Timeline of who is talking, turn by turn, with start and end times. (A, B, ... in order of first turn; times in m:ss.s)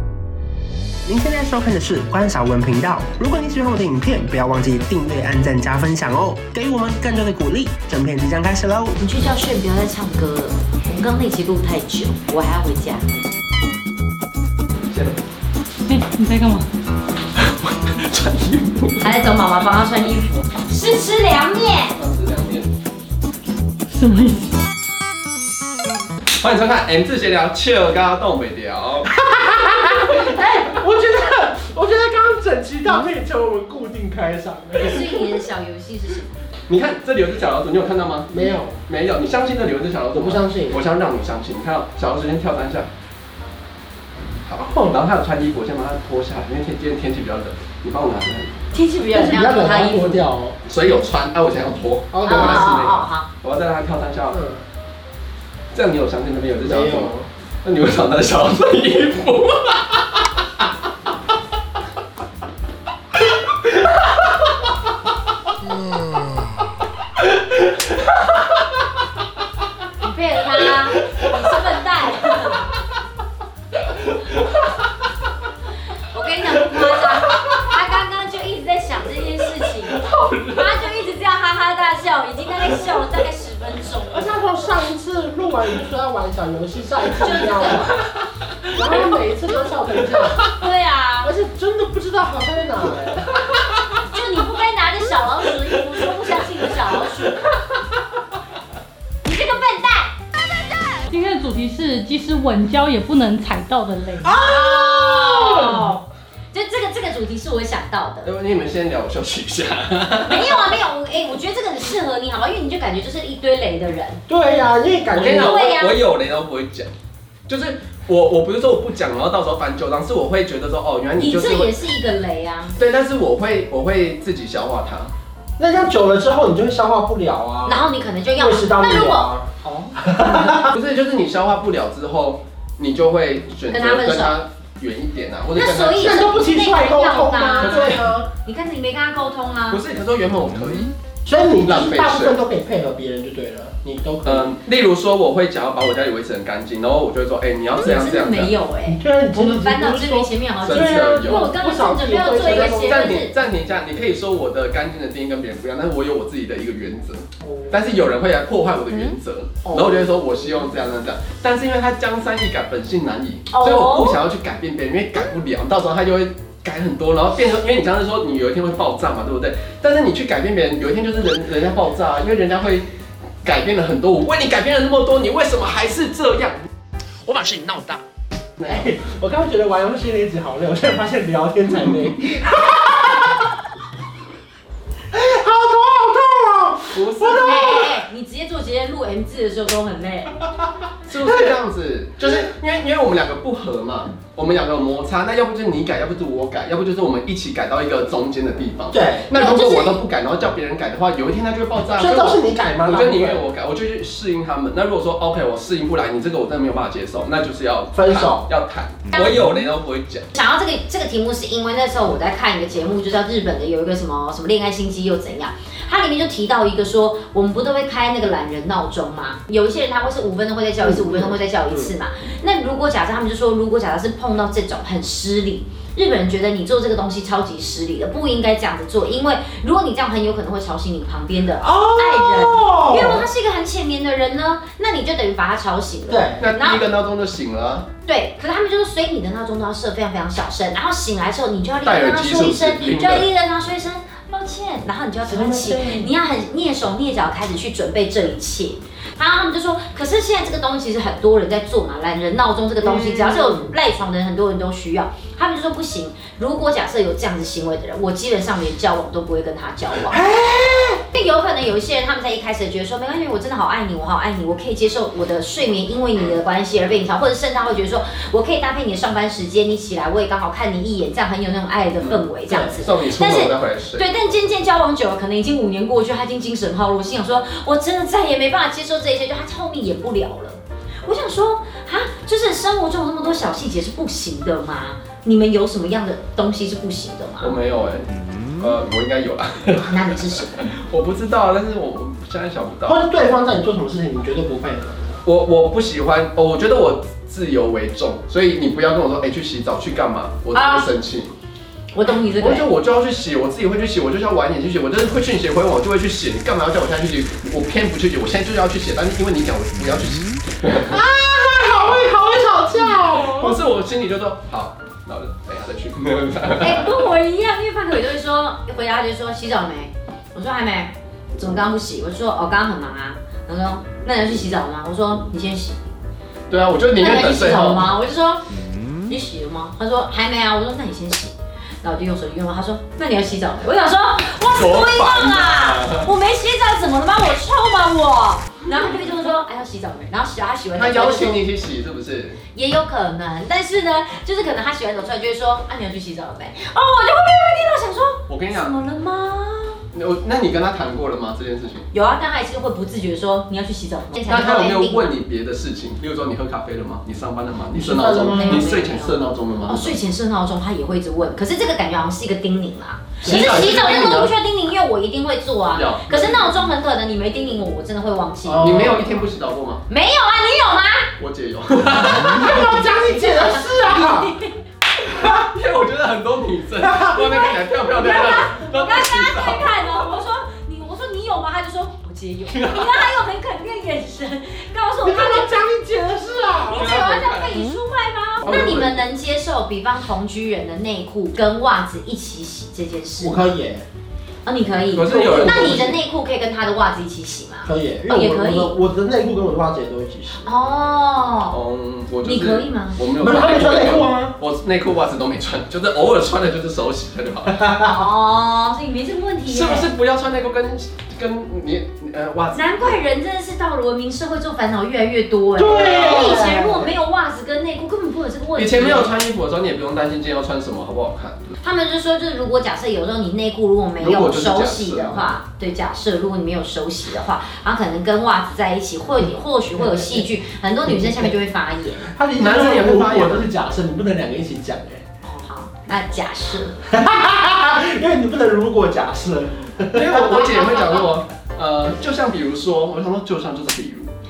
0:01.1-0:04.7 A
0:01.2-0:08.9 B
0:09.0-0:13.0 C
0:14.9-0:15.2 D
0:15.9-0:16.7 E
0:17.4-0:19.2 D
0:19.0-0:22.0 C
0:22.0-0:22.7 D
0:23.9-0:24.5 E
0:26.4-0:29.2 D
0:29.1-0:35.4 A
0:34.7-0:36.3 C
0:36.7-0:38.3 D
0:38.3-0:38.8 A
0:38.8-0:42.9 D
0:40.1-0:40.8 A
0:44.4-0:48.5 D
0:44.7-0:45.0 A
0:48.7-0:50.2 C
0:49.1-0:50.6 A
0:50.6-0:54.4 D
0:52.1-0:52.8 A
0:52.2-0:53.3 C
0:54.3-0:54.6 A
0:55.7-1:00.2 D
0:56.6-0:57.3 A
1:10.0-1:12.7 C
1:16.1-1:24.4 C
1:20.0-1:20.8 D
1:24.1-1:27.9 A
1:27.2-1:27.9 C
1:28.7-1:29.1 D
1:28.7-1:30.5 A
1:30.4-1:31.3 C
1:31.2-1:33.3 A
1:34.1-1:37.4 C
1:39.2-1:40.1 C
1:41.1-1:44.3 E
1:44.2-1:46.0 A
1:44.2-1:48.3 C
1:48.2-1:50.7 D
1:50.2-1:54.2 C
1:54.3-1:55.7 A
1:55.1-1:56.9 D
1:55.2-1:56.0 C
1:57.5-2:01.7 D
2:01.2-2:02.8 C
2:02.8-2:05.1 D
2:05.6-2:07.8 A
2:07.6-2:10.2 C
2:08.4-2:10.7 A
2:10.5-2:16.4 D
2:13.7-2:14.4 C
2:15.5-2:19.8 C
2:16.0-2:18.3 A
2:17.6-2:18.0 D
2:19.7-2:20.9 D
2:21.2-2:24.4 A
2:21.6-2:22.4 D
2:24.2-2:28.5 D
2:27.8-2:33.3 C
2:28.9-2:33.2 A
2:30.6-2:31.5 D
2:32.3-2:52.8 D
2:39.6-2:40.0 C
2:43.5-2:44.2 C
2:53.4-2:56.6 D
2:57.3-2:58.0 B
2:57.4-2:57.8 D
2:58.6-2:58.9 D
2:58.6-3:03.5 A
3:05.1-3:08.0 A
3:06.9-3:07.8 D
3:07.4-3:10.4 C
3:11.0-3:30.2 D
3:18.9-3:19.3 A
3:19.3-3:20.0 C
3:21.9-3:23.4 A
3:27.9-3:28.5 A
3:29.1-3:29.5 C
3:30.3-3:56.8 C
3:40.8-3:41.9 A
3:51.6-3:53.3 A
3:56.1-3:56.4 A
3:56.4-3:57.9 D
3:58.0-4:20.2 C
4:01.8-4:03.3 D
4:05.3-4:06.1 A
4:12.8-4:13.7 A
4:20.1-4:21.0 A
4:21.1-4:47.6 C
4:32.0-4:34.0 D
4:47.4-4:53.0 D
4:49.8-4:50.6 C
4:52.8-4:55.2 A
4:55.2-5:01.3 D
5:00.5-5:00.9 C
5:01.9-5:02.7 C
5:02.4-5:11.0 D
5:10.8-5:13.6 A
5:12.8-5:17.0 D
5:16.6-5:25.8 C
5:26.5-5:27.9 D
5:27.0-5:28.5 C
5:29.0-5:41.4 C
5:34.5-5:36.1 D
5:40.7-5:42.4 D
5:42.5-5:49.8 C
5:48.3-5:48.7 D
5:49.9-5:51.8 D
5:51.9-5:55.1 C
5:54.3-6:00.0 D
5:57.7-5:58.6 A
5:58.3-6:08.8 C
6:03.2-6:04.3 A
6:03.2-6:04.3 D
6:05.7-6:06.6 D
6:08.4-6:09.0 A
6:08.6-6:09.8 D
6:09.9-6:11.1 C
6:11.2-6:12.5 D
6:12.0-6:14.5 C
6:12.1-6:14.3 A
6:15.0-6:20.0 D
6:16.8-6:17.2 A
6:17.2-6:25.6 C
6:22.5-6:23.1 D
6:25.0-6:27.0 A
6:26.6-6:33.4 C
6:26.7-6:27.6 D
6:28.4-6:29.0 D
6:33.2-6:33.8 A
6:34.4-6:38.7 C
6:34.9-6:36.0 D
6:35.0-6:35.8 A
6:37.6-6:40.5 A
6:40.4-6:41.6 C
6:41.5-6:47.6 D
6:42.2-6:43.0 C
6:43.2-6:44.3 A
6:47.8-6:49.9 C
6:49.5-6:52.9 D
6:52.5-6:59.2 C
6:55.5-6:56.9 A
6:55.7-6:56.4 D
6:58.6-7:01.6 D
7:01.6-7:12.1 C
7:04.0-7:05.3 D
7:12.0-7:15.0 A
7:12.4-7:13.5 D
7:15.2-7:16.8 C
7:16.9-7:20.6 A
7:19.9-7:24.1 D
7:20.6-7:21.0 C